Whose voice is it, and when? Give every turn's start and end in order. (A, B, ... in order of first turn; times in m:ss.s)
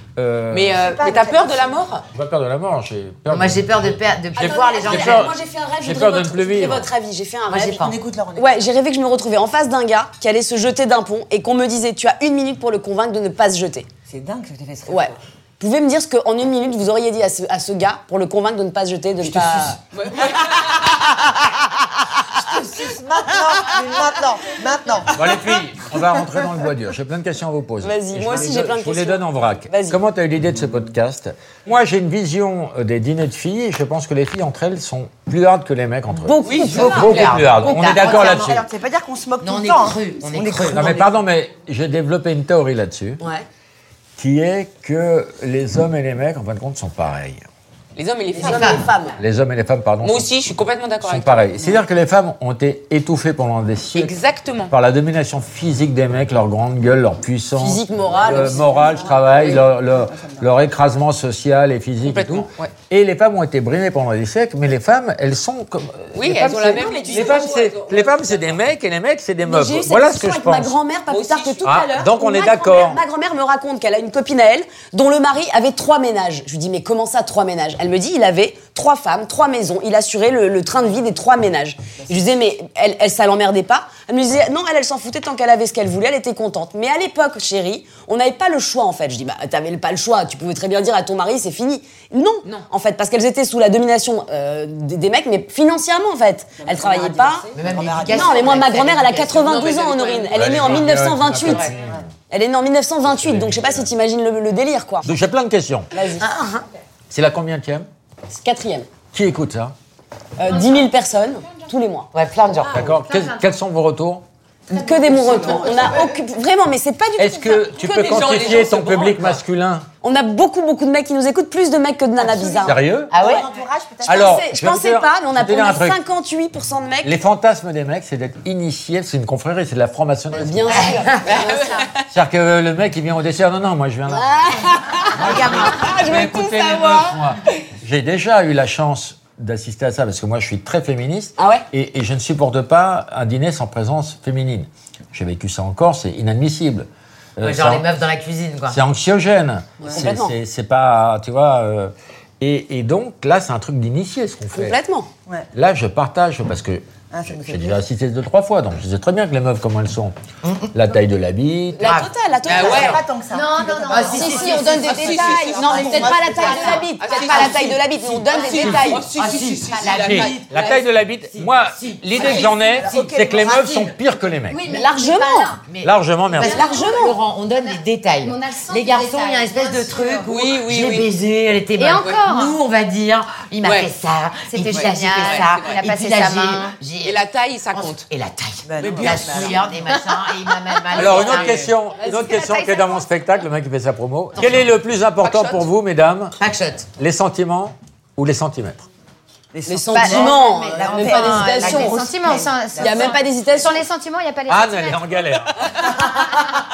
0:00.2-0:01.0 A
0:00.5-0:02.1 B
0:00.8-0:01.7 C
0:02.1-0:04.0 A
0:03.3-0:05.3 D
0:04.4-0:07.8 E
0:04.8-0:06.9 A
0:07.5-0:08.0 D
0:07.6-0:08.7 C
0:08.4-0:13.9 E
0:14.1-0:15.2 C
0:14.9-0:19.8 E
0:19.2-0:19.8 A
0:19.9-0:20.8 B
0:22.4-0:25.3 C
0:25.1-0:38.6 A
0:27.8-0:30.0 E
0:36.2-0:37.4 E
0:36.4-0:38.6 D
0:36.5-0:37.0 B
0:36.6-0:37.2 C
0:37.8-0:41.0 C
0:39.4-0:41.1 D
0:40.7-0:43.2 A
0:43.2-0:43.5 D
0:44.2-0:47.4 A
0:48.0-0:48.8 B
0:48.4-0:49.2 E
0:48.4-0:48.9 D
0:49.2-0:50.3 A
0:50.0-0:51.6 B
0:51.0-0:54.1 A
0:54.0-0:54.7 B
0:54.7-1:10.8 A
0:57.6-0:59.2 E
0:59.2-1:00.5 C
1:02.0-1:02.7 B
1:06.1-1:08.6 B
1:06.8-1:07.6 E
1:09.4-1:37.5 E
1:11.1-1:11.8 B
1:11.6-1:13.0 A
1:36.6-1:38.5 C
1:37.5-1:39.5 D
1:38.1-1:41.7 E
1:39.2-1:40.9 B
1:40.3-1:42.0 A
1:41.4-1:41.7 B
1:42.3-1:45.1 E
1:43.0-1:43.9 A
1:45.0-1:45.9 A
1:45.9-1:46.3 E
1:46.2-1:46.6 D
1:47.1-1:47.9 A
1:48.3-1:48.9 E
1:49.1-1:49.8 A
1:50.4-1:52.1 E
1:50.4-1:50.9 F
1:52.1-1:52.9 D
1:52.7-1:54.2 A
1:52.7-1:53.5 F
1:54.7-1:56.2 C
1:54.7-1:58.6 E
1:57.2-1:59.9 A
1:57.9-1:59.4 B
2:00.0-2:03.4 E
2:02.2-2:04.4 C
2:02.6-2:03.1 A
2:03.1-2:03.5 D
2:04.1-2:06.0 A
2:04.1-2:07.2 E
2:07.0-2:10.9 A
2:10.3-2:11.6 E
2:10.7-2:11.4 D
2:11.2-2:12.0 B
2:11.3-2:11.8 F
2:12.1-2:14.3 A
2:14.1-2:17.2 E
2:15.0-2:27.9 A
2:15.2-2:15.7 D
2:21.4-2:21.6 E
2:27.4-2:28.8 D
2:28.7-2:34.8 A
2:29.9-2:30.4 E
2:34.5-2:35.1 E
2:35.5-2:40.2 A
2:37.1-2:37.8 C
2:40.4-2:40.7 D
2:40.7-2:42.0 A
2:41.8-2:43.0 E
2:41.8-2:42.8 D
2:42.5-2:43.0 B
2:42.5-2:46.7 C
2:43.3-2:47.6 F
2:43.9-2:47.6 D
2:44.0-2:49.0 E
2:44.7-2:45.9 B
2:47.0-2:50.5 B
2:48.3-2:48.9 F
2:48.5-2:49.0 A
2:49.1-2:52.6 D
2:49.6-2:50.0 F
2:50.0-2:54.6 A
2:52.2-2:53.9 C
2:54.5-2:55.6 F
2:54.7-2:55.5 E
2:55.7-3:11.7 D
2:55.8-2:56.7 A
2:56.3-3:00.3 F
2:56.4-2:57.2 E
3:00.3-3:01.1 B
3:01.8-3:02.6 F
3:03.6-3:03.9 B
3:04.5-3:06.8 F
3:04.9-3:05.8 B
3:07.0-3:08.0 B
3:08.6-3:09.7 C
3:08.8-3:09.6 B
3:10.9-3:16.4 A
3:11.0-3:11.7 B
3:11.9-3:13.1 F
3:14.4-3:14.7 D
3:15.2-3:15.6 B
3:16.4-3:16.9 D
3:17.0-3:18.8 A
3:19.5-3:23.2 C
3:19.7-3:22.0 E
3:20.0-3:25.2 F
3:20.0-3:22.1 D
3:22.8-3:23.8 E
3:24.5-3:25.6 A
3:25.9-3:26.4 C